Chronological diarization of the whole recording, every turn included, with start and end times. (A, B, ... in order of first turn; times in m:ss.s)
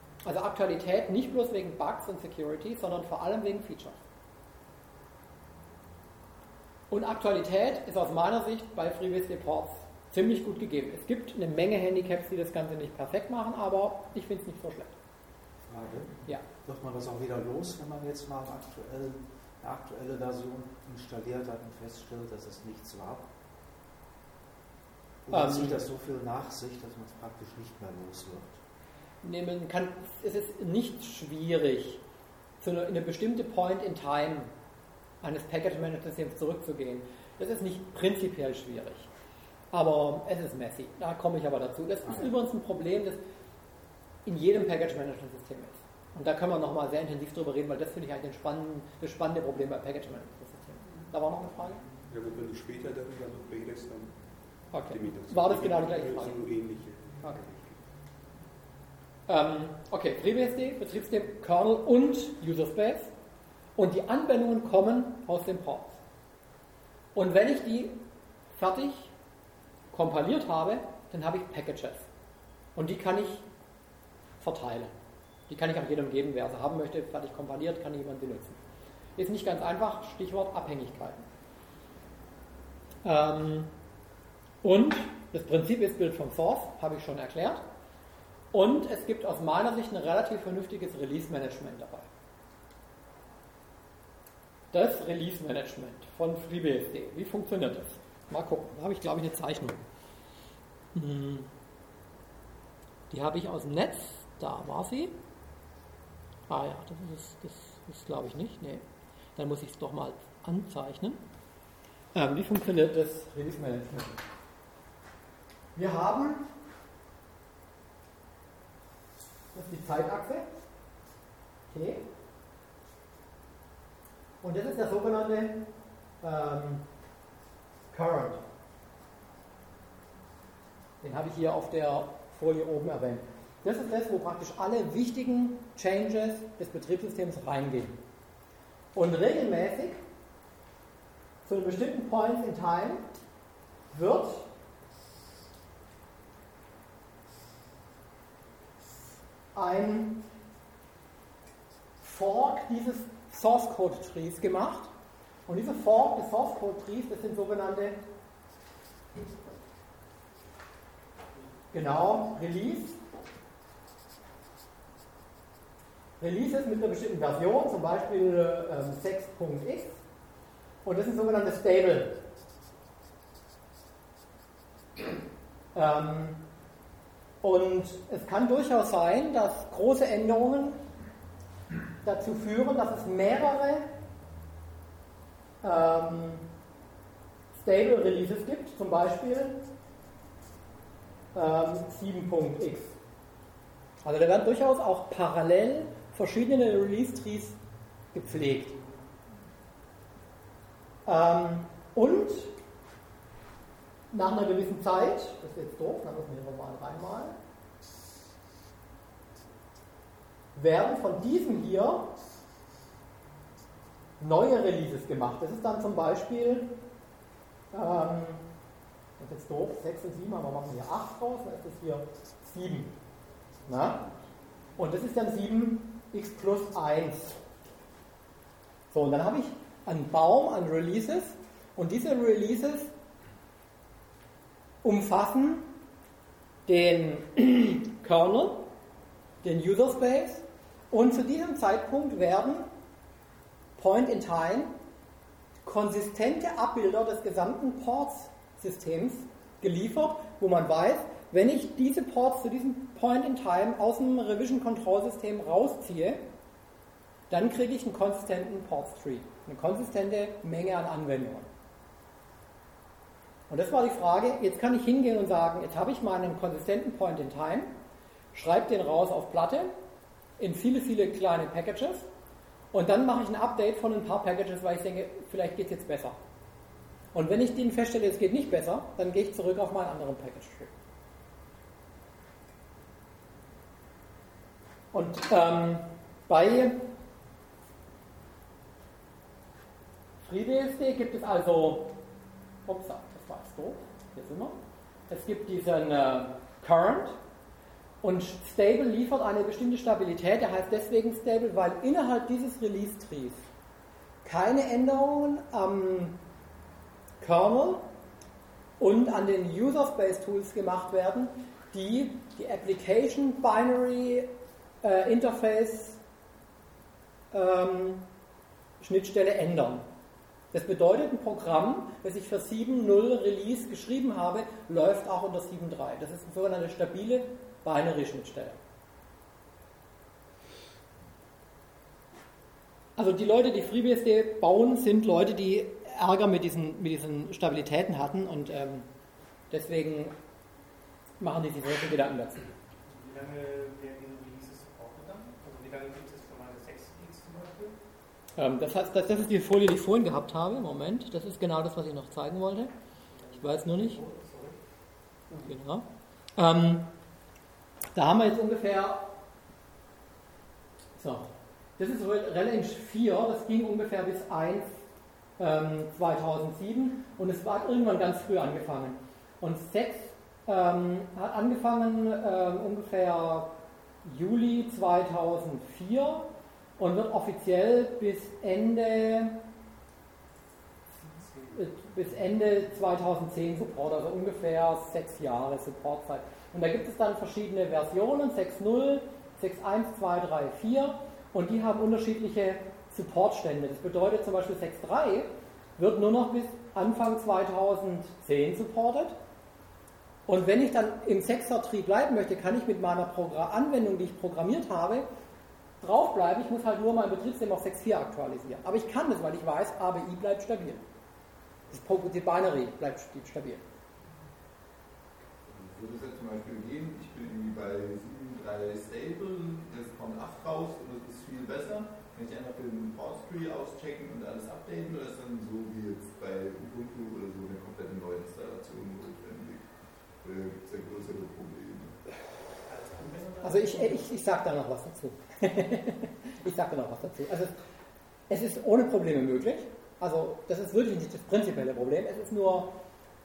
0:00.2-0:04.0 A
0:06.9-0:14.9 A
0:15.6-0:23.3 B
0:25.2-0:28.6 B
0:25.3-0:25.8 A
0:29.2-0:32.0 A
0:32.6-0:34.5 A
0:35.2-0:39.1 A
0:39.7-0:43.2 A
0:44.2-0:51.8 A
0:52.1-0:54.1 C
0:54.7-0:56.4 A
0:54.9-0:57.8 C
0:59.3-1:03.1 A
1:03.8-1:06.0 A
1:07.1-1:08.0 A
1:08.6-1:09.1 A
1:09.9-1:12.0 A
1:12.8-1:13.4 A
1:14.4-1:14.9 A
1:15.5-1:18.6 A
1:19.2-1:21.2 A
1:23.0-1:23.7 A
1:24.6-1:27.6 A
1:28.5-1:32.0 A
1:34.7-1:39.8 A
1:40.9-1:41.5 A
1:43.1-1:45.2 A
1:46.5-1:48.8 A
1:49.4-1:51.2 A
1:52.1-1:54.2 A
1:55.7-1:56.4 A
1:59.5-2:00.5 A
2:01.7-2:02.0 A
2:04.4-2:05.7 A
2:06.2-2:06.8 A
2:07.9-2:08.4 A
2:11.0-2:18.0 A
2:18.9-2:20.0 A
2:21.4-2:23.0 A
2:23.9-2:24.5 A
2:29.5-2:30.2 A
2:32.0-2:34.9 A
2:35.5-2:38.0 A
2:41.7-2:43.0 A
2:46.2-2:50.0 A
2:50.8-2:52.2 A
2:55.7-2:56.4 A
2:57.4-3:00.8 A
3:02.0-3:03.9 A
3:05.6-3:06.4 A
3:07.5-3:09.6 A
3:11.3-3:12.9 A
3:14.0-3:17.6 A
3:18.1-3:18.8 A
3:21.0-3:22.5 A
3:24.1-3:27.4 A
3:30.6-3:32.1 A
3:34.2-3:36.7 A
3:37.7-3:38.4 A
3:39.2-3:42.9 A
3:43.7-3:44.0 A
3:44.8-3:47.4 A
3:48.9-3:52.9 A
3:54.8-3:55.7 A
3:56.7-3:58.7 A
3:59.4-4:02.7 A
4:03.8-4:04.7 A
4:05.6-4:16.2 A
4:17.3-4:21.5 A
4:23.5-4:27.7 A
4:28.3-4:29.7 A
4:30.4-4:32.0 A
4:32.7-4:36.2 A
4:37.1-4:40.7 A
4:44.9-4:46.8 A
4:50.2-4:51.9 A
4:52.6-4:54.6 A
4:55.1-4:57.2 A
4:58.0-5:03.4 A
5:04.2-5:06.2 A
5:07.2-5:07.8 A
5:08.8-5:14.3 A
5:14.8-5:16.0 A
5:17.3-5:18.0 A
5:18.8-5:19.8 A
5:20.5-5:28.6 A
5:33.0-5:38.9 A
5:39.5-5:40.1 A
5:41.2-5:42.5 A
5:42.9-5:47.7 D
5:48.4-5:52.7 A
5:53.1-5:54.6 D
5:53.4-5:54.0 A
5:55.4-5:55.8 A
5:56.4-5:56.9 A
5:57.9-5:59.1 A
6:01.0-6:04.7 A
6:05.4-6:19.4 A
6:21.0-6:21.3 D
6:21.5-6:39.2 A
6:40.3-6:45.0 A
6:45.8-6:50.8 A
6:51.7-6:53.6 A
6:55.4-7:09.6 E
7:10.2-7:12.0 E
7:12.6-7:14.0 D
7:13.4-7:17.5 A
7:18.3-7:22.8 A